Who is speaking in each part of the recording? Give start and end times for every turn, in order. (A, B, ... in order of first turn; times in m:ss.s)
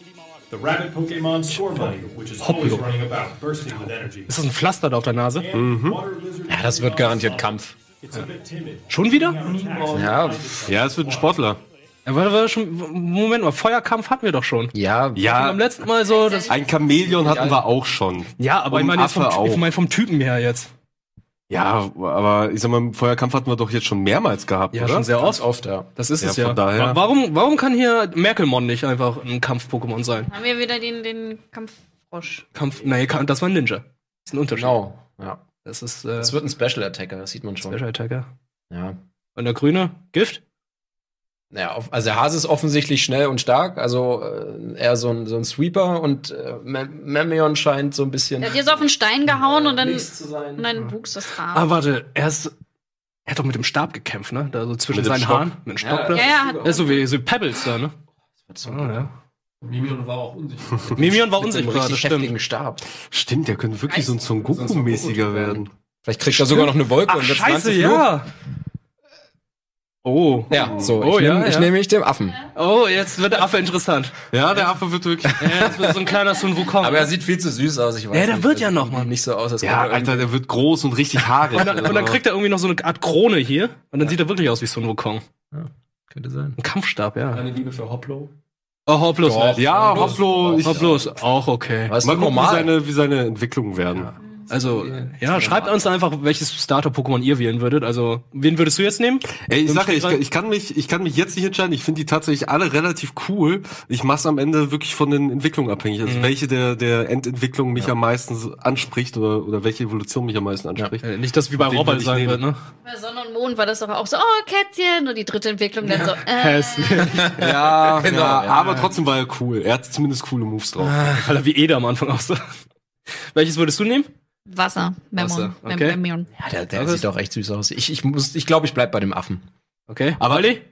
0:00.5-0:04.3 A
0:02.4-0:02.9 B
0:04.3-0:05.5 B
0:05.4-0:11.4 A
0:05.5-0:06.0 C
0:06.5-0:07.8 D
0:08.9-0:10.0 B
0:09.9-0:10.5 D
0:10.6-0:11.6 C
0:12.1-0:16.5 B
0:14.7-0:15.2 D
0:15.2-0:15.6 C
0:16.0-0:16.9 E
0:16.5-0:19.7 C
0:17.2-0:17.6 D
0:18.4-0:20.7 B
0:21.5-0:25.1 C
0:24.7-0:25.4 B
0:25.2-0:25.9 D
0:26.0-0:30.3 B
0:26.2-0:27.0 C
0:30.3-0:32.4 E
0:32.6-0:34.8 B
0:34.5-0:35.4 D
0:35.6-0:36.4 B
0:36.2-0:37.8 D
0:37.7-0:38.3 B
0:38.7-0:39.0 D
0:39.4-0:40.4 B
0:41.5-0:50.7 D
0:48.4-0:51.7 E
0:51.5-0:52.5 B
0:53.3-0:57.9 B
0:54.9-0:55.5 C
0:55.8-0:56.8 D
0:56.1-0:57.1 E
0:58.5-0:59.1 D
0:58.7-0:59.1 B
0:59.6-1:01.2 F
1:01.0-1:02.3 B
1:01.4-1:02.8 D
1:03.0-1:05.7 C
1:03.9-1:04.2 E
1:04.5-1:08.1 D
1:06.4-1:06.7 C
1:06.5-1:08.3 B
1:10.0-1:11.7 B
1:10.5-1:12.4 D
1:10.6-1:10.9 C
1:12.6-1:14.2 B
1:14.3-1:15.7 C
1:15.4-1:17.1 B
1:15.6-1:15.9 D
1:16.8-1:20.3 D
1:18.1-1:19.1 B
1:19.6-1:22.2 C
1:21.5-1:25.2 B
1:21.6-1:21.9 D
1:25.5-1:26.6 D
1:26.6-1:27.4 B
1:27.3-1:28.3 F
1:28.9-1:32.0 B
1:29.2-1:31.2 D
1:29.5-1:31.1 C
1:31.9-1:32.7 D
1:32.0-1:34.1 C
1:34.0-1:36.0 D
1:34.5-1:40.2 B
1:39.4-1:51.0 C
1:46.0-1:46.3 B
1:51.0-1:52.6 B
1:51.6-1:52.4 C
1:52.8-1:57.1 E
1:56.0-1:58.8 B
1:57.0-1:58.9 D
1:57.4-2:01.2 C
2:00.8-2:02.4 B
2:03.3-2:04.1 B
2:04.5-2:06.3 E
2:05.2-2:06.0 B
2:06.4-2:09.5 D
2:06.7-2:07.0 B
2:09.9-2:10.6 B
2:10.2-2:10.5 C